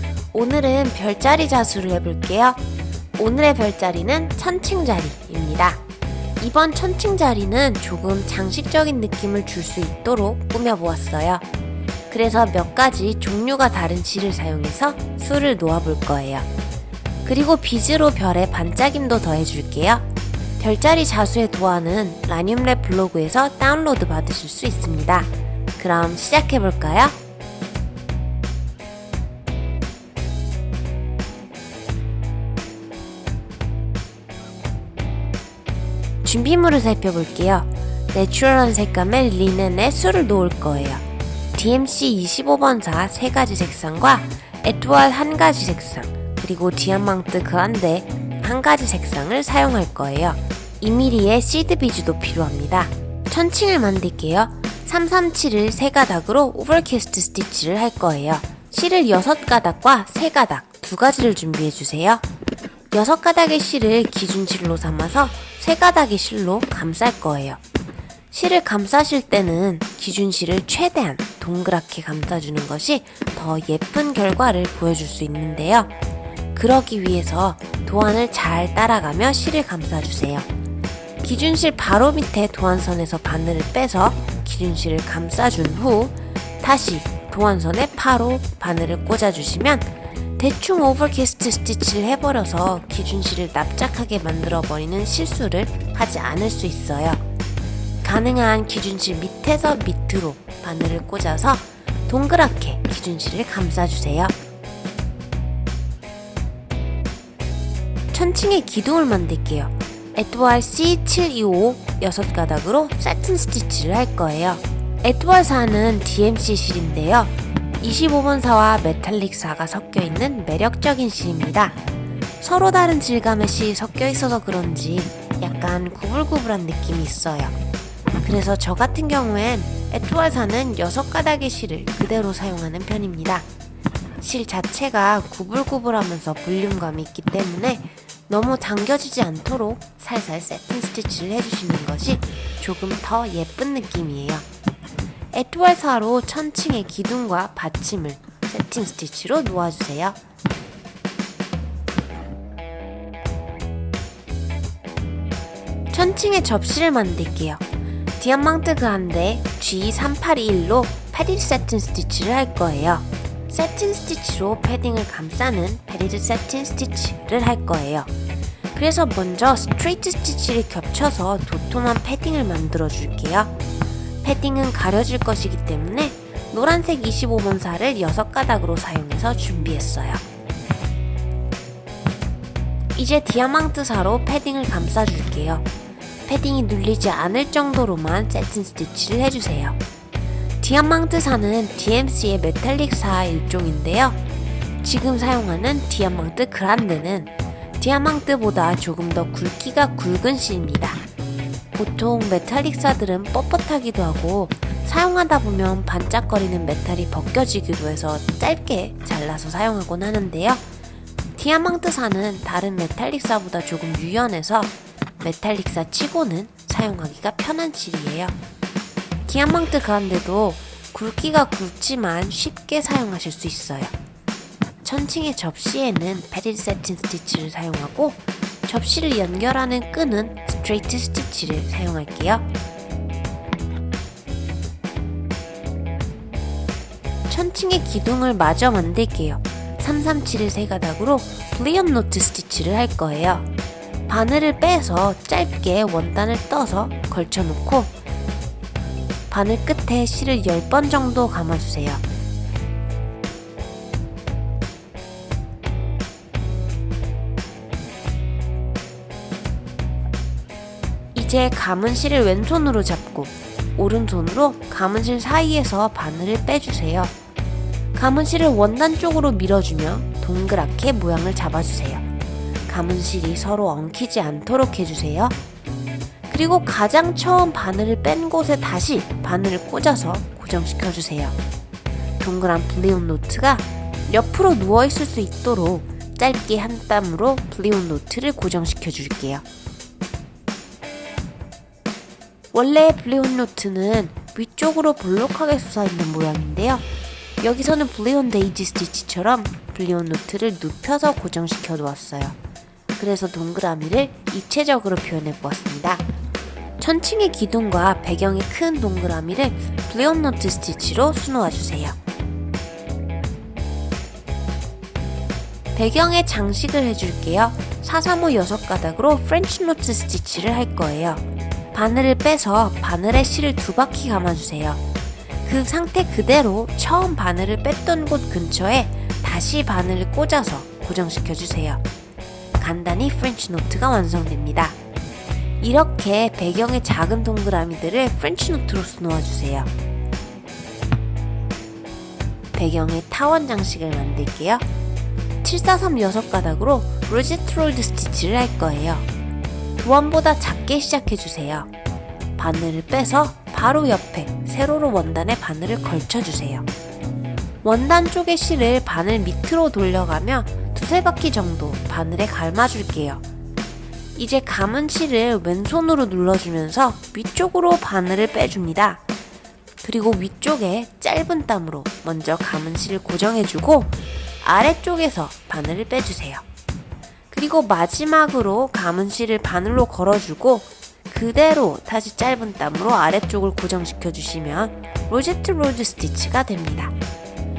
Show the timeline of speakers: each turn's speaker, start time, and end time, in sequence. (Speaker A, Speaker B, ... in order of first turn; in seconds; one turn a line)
Speaker A: 0.3-2.6
Speaker A: 3.2-5.8
Speaker A: 6.4-11.4
Speaker A: 12.1-16.5
Speaker A: 17.2-20.1
Speaker A: 20.6-27.1
Speaker A: 36.2-62.2
Speaker A: 62.9-67.6
Speaker A: 68.3-75.9
Speaker A: 76.5-80.5
Speaker A: 81.2-97.2
Speaker A: 98.0-104.3
Speaker A: 108.1-121.8
Speaker A: 122.4-127.6
Speaker A: 128.2-133.5
Speaker A: 134.2-144.5
Speaker A: 145.3-150.2
Speaker A: 155.9-157.6
Speaker A: 158.2-168.1
Speaker A: 168.7-173.5
Speaker A: 174.2-180.2
Speaker A: 182.9-185.7
Speaker A: 186.3-189.8
Speaker A: 190.6-194.2
Speaker A: 194.8-201.0
Speaker A: 201.8-210.6
Speaker A: 211.3-218.4
Speaker A: 219.3-223.9
Speaker A: 224.8-232.5
Speaker A: 237.3-243.5
Speaker A: 244.1-247.9
Speaker A: 249.3-252.0
Speaker A: 261.1-267.1
Speaker A: 267.9-272.1
Speaker A: 272.7-275.4
Speaker A: 276.3-281.4
Speaker A: 282.2-289.4
Speaker A: 292.5-296.9
Speaker A: 297.4-302.4
Speaker A: 303.0-306.1
Speaker A: 306.8-312.0
Speaker A: 315.8-324.8
Speaker A: 325.4-331.8
Speaker A: 332.6-334.8
Speaker A: 335.6-339.7
Speaker A: 342.5-344.6
Speaker A: 345.4-349.1
Speaker A: 349.8-351.7
Speaker A: 352.4-356.7
Speaker A: 357.6-363.2
Speaker A: 364.2-369.0
Speaker A: 369.8-376.4
Speaker A: 377.3-386.9